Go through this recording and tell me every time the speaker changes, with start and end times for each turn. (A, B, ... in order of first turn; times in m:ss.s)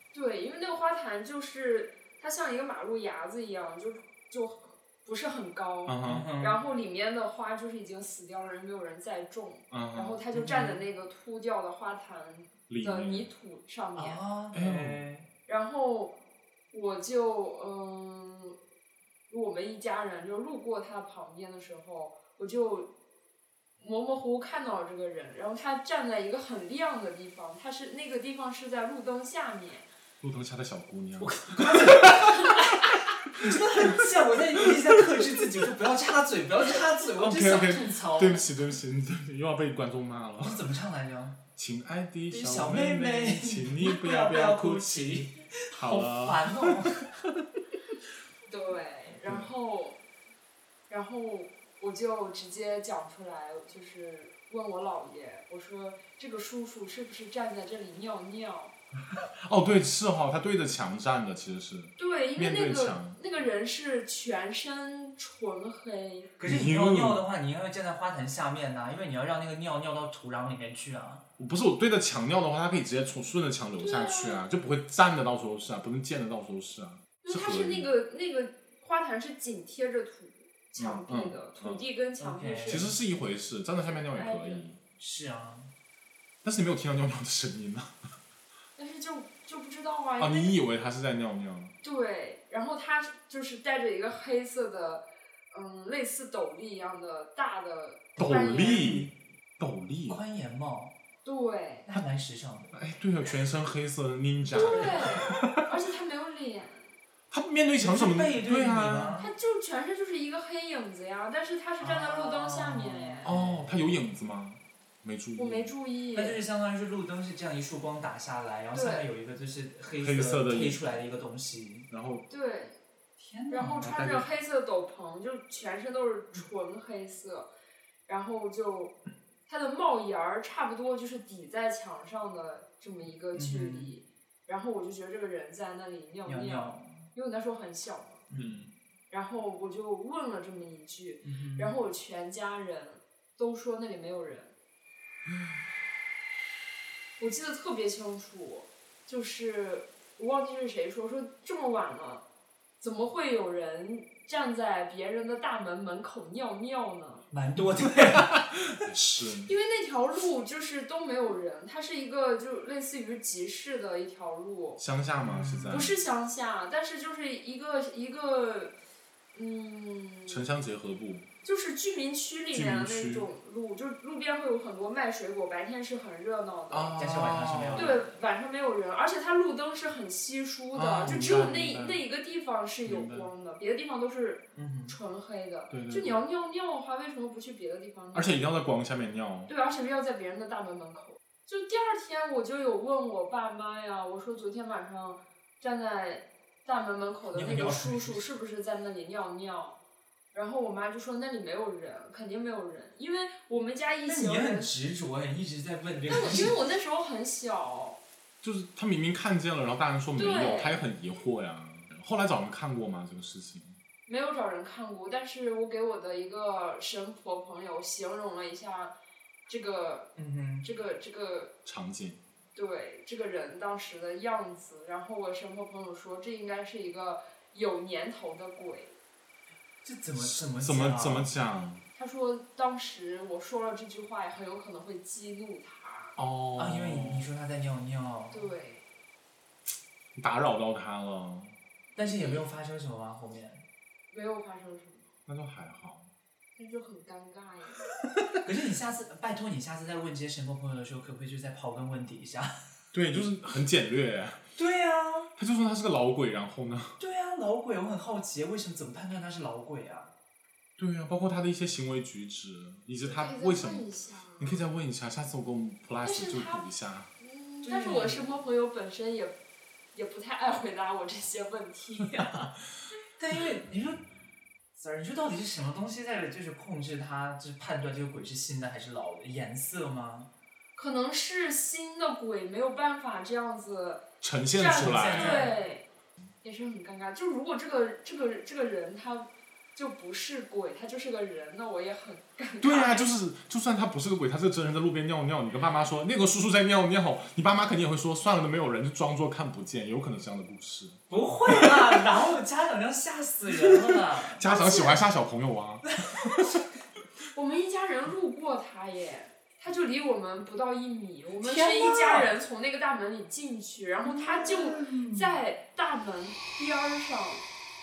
0:00.1-0:14.2 A
0:05.9-0:06.3 B
0:06.0-0:06.6 C
0:09.7-0:10.2 B
0:10.3-0:10.8 C
0:12.7-0:13.3 B
0:14.0-0:15.3 C
0:14.5-0:15.0 B
0:15.5-0:16.2 A
0:16.7-0:18.6 A
0:19.3-0:22.9 A
0:23.8-0:29.9 A
0:30.2-0:32.6 B
0:31.2-0:38.5 C
0:33.4-0:34.0 B
0:34.7-0:35.3 B
0:37.2-0:40.7 B
0:40.4-0:41.4 C
0:41.6-0:47.3 B
0:42.3-0:47.0 C
0:48.5-0:50.0 A
0:49.2-0:49.5 B
0:50.9-0:58.8 A
0:59.1-1:03.2 B
1:02.0-1:06.3 A
1:06.4-1:11.2 C
1:06.4-1:07.2 B
1:11.4-1:17.9 B
1:13.8-1:14.4 A
1:17.2-1:22.9 A
1:20.8-1:21.8 B
1:22.2-1:22.9 C
1:22.7-1:24.8 B
1:23.9-1:24.7 A
1:25.0-1:25.7 C
1:26.4-1:28.0 B
1:28.8-1:30.6 A
1:30.2-1:31.8 B
1:31.8-1:39.0 A
1:38.2-1:40.2 B
1:38.3-1:39.1 C
1:40.1-1:41.0 C
1:41.2-1:41.9 A
1:41.9-1:42.8 C
1:42.7-1:45.6 B
1:44.5-1:46.9 A
1:47.3-1:49.2 B
1:47.8-1:49.3 C
1:49.2-1:53.3 A
1:51.8-1:54.0 C
1:53.2-1:55.7 B
1:55.4-1:56.4 A
1:56.2-2:01.9 C
1:58.7-1:59.1 A
2:00.0-2:00.8 B
2:01.9-2:02.3 B
2:02.3-2:02.8 A
2:03.2-2:04.0 C
2:03.5-2:07.5 A
2:03.8-2:04.2 B
2:08.1-2:18.3 A
2:13.3-2:13.9 C
2:16.2-2:17.1 C
2:18.3-2:18.7 C
2:18.4-2:18.7 B
2:19.1-2:24.5 A
2:21.2-2:21.7 C
2:27.2-2:32.2 A
2:32.8-2:37.3 A
2:37.3-2:38.5 C
2:38.2-2:39.5 B
2:39.4-2:44.8 A
2:44.8-2:46.0 B
2:45.2-2:45.9 C
2:45.7-2:48.8 A
2:49.3-2:50.5 A
2:50.3-2:51.3 B
2:51.4-2:57.1 A
2:52.5-2:53.3 B
2:56.7-2:57.9 B
2:57.0-2:58.2 C
2:57.8-3:08.5 A
3:00.7-3:02.0 B
3:02.8-3:03.3 B
3:04.6-3:05.0 C
3:05.7-3:06.2 B
3:08.1-3:09.5 B
3:09.5-3:19.8 A
3:17.3-3:18.2 C
3:20.3-3:24.7 A
3:24.0-3:26.6 C
3:26.1-3:28.0 A
3:28.4-3:33.8 B
3:30.2-3:30.8 A
3:34.1-3:38.9 A
3:39.5-3:40.1 A
3:40.2-3:40.7 C
3:40.6-3:41.5 A
3:41.6-3:42.2 B
3:42.6-3:49.0 A
3:49.8-3:51.3 C
3:50.2-3:51.8 B
3:52.0-3:56.2 A
3:56.2-3:57.3 B
3:56.6-3:58.4 C
3:58.3-3:58.8 A
4:00.2-4:01.6 B
4:02.0-4:03.6 C
4:02.0-4:02.4 A
4:04.1-4:05.1 A
4:05.3-4:06.1 B
4:06.6-4:07.8 A
4:08.4-4:12.5 C
4:12.9-4:14.4 B
4:14.6-4:15.3 C
4:15.4-4:17.0 B
4:17.0-4:20.1 C
4:20.8-4:23.8 B
4:23.0-4:24.6 A
4:24.4-4:27.1 B
4:26.0-4:26.7 A
4:27.2-4:29.4 A
4:27.6-4:28.2 C
4:29.9-4:32.5 A
4:33.2-4:34.0 C
4:34.8-4:40.3 C
4:40.8-4:45.9 A
4:44.2-4:45.5 B
4:44.7-4:45.6 C
4:46.4-4:53.1 A
4:52.6-5:02.1 B
5:01.1-5:04.4 C
5:03.5-5:06.6 B
5:04.4-5:05.0 A
5:05.9-5:06.6 C
5:07.3-5:17.5 A
5:11.4-5:12.3 C
5:14.1-5:15.2 C